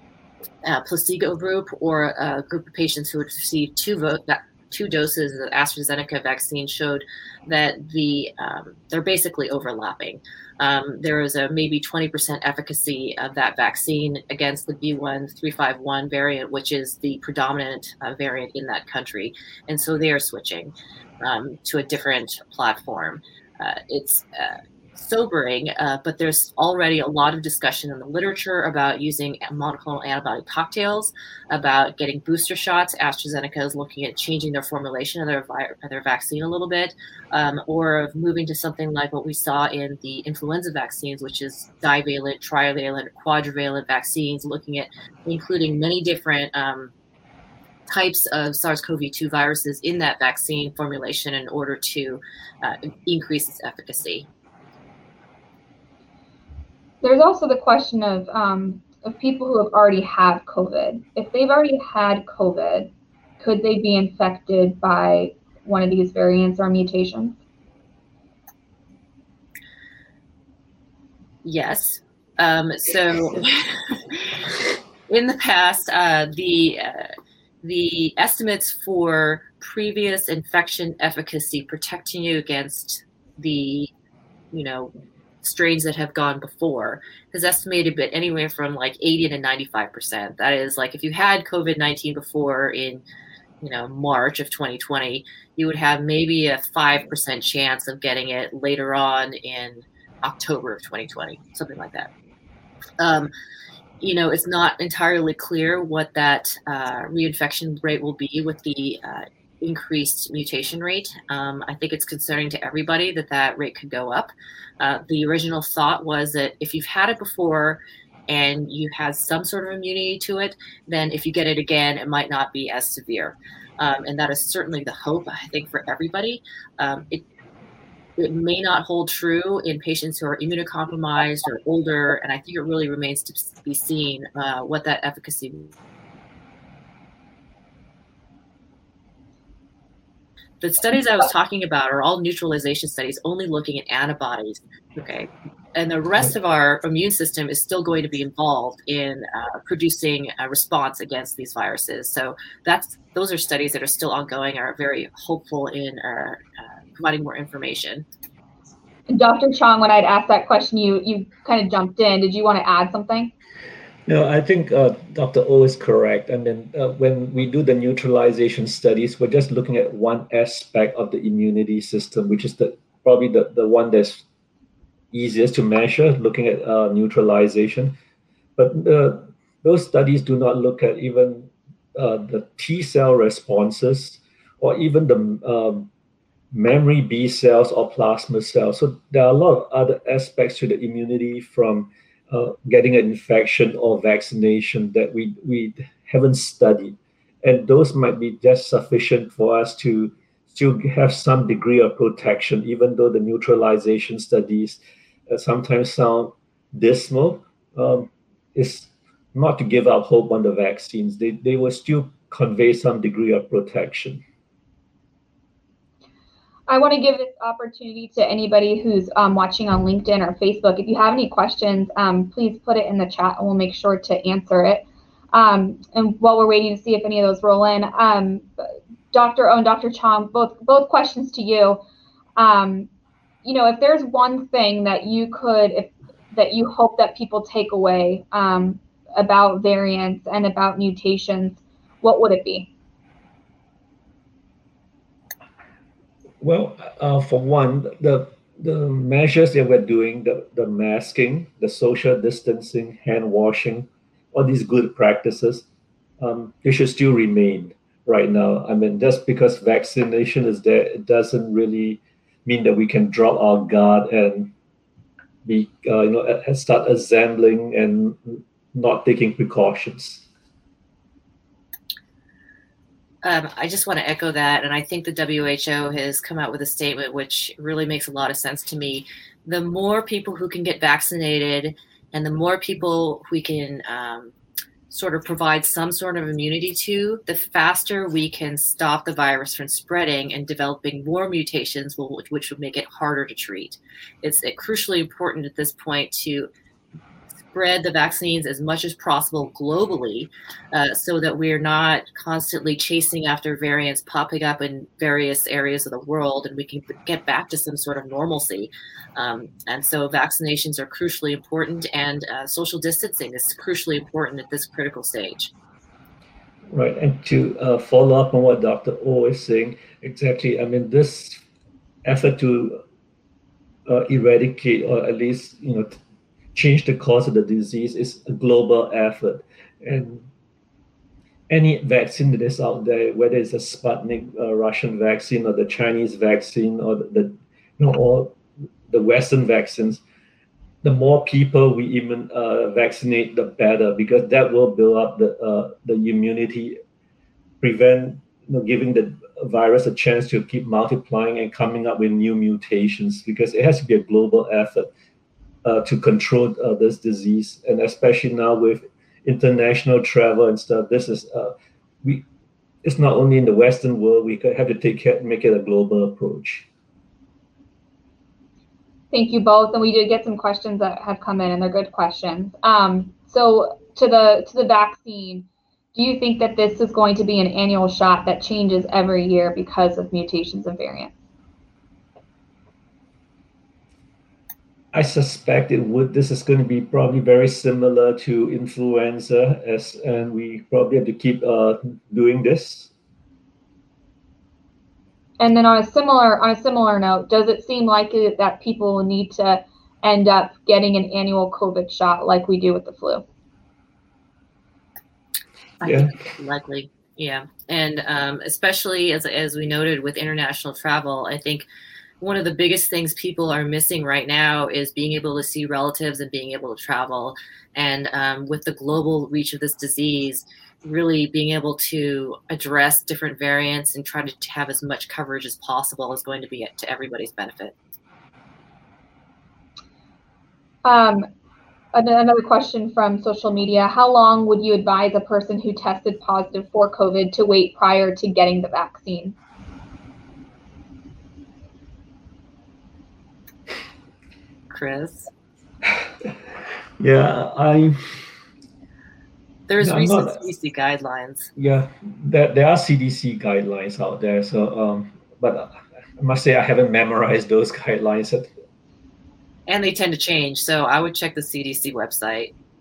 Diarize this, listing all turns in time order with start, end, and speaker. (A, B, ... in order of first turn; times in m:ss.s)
0:00.6-0:46.9 A
0:47.9-0:54.3 A
0:57.0-1:07.4 B
1:11.4-1:14.5 A
1:15.1-1:17.1 A
1:17.6-1:23.9 A
1:24.5-1:33.0 A
1:33.6-1:42.1 A
1:43.0-1:43.3 A
1:44.0-2:07.2 A
2:08.2-2:15.7 A
2:20.6-2:38.0 A
2:39.1-2:43.3 B
2:44.0-2:54.2 C
2:55.1-2:58.0 C
2:58.6-3:05.9 C
3:06.5-3:34.2 C
3:36.7-3:48.5 B
3:49.1-3:51.8 B
3:52.4-3:52.9 B
3:53.4-4:02.7 B
4:06.4-4:15.6 C
4:16.2-4:24.5 C
4:25.4-4:30.2 C
4:33.2-4:44.3 A
4:44.9-4:56.5 A
4:57.5-5:15.5 A
5:16.7-5:21.4 C
5:22.0-5:22.8 C
5:23.9-5:26.0 C
5:26.5-5:30.2 C
5:31.5-5:40.0 C
5:40.8-5:46.8 C
5:47.6-5:54.9 C
5:55.6-6:02.2 C
6:02.8-6:06.6 C
6:09.1-6:21.2 B
6:24.9-6:32.9 C
6:35.4-6:43.2 B
6:45.8-6:51.6 A
6:45.8-6:46.1 C
6:52.2-7:07.7 A
7:10.8-7:11.2 B
7:11.9-7:19.3 B
7:24.7-7:25.3 A
7:27.0-7:28.2 C
7:29.7-7:31.5 A
7:29.8-7:30.4 C
7:31.6-7:38.5 C
7:39.7-7:42.5 A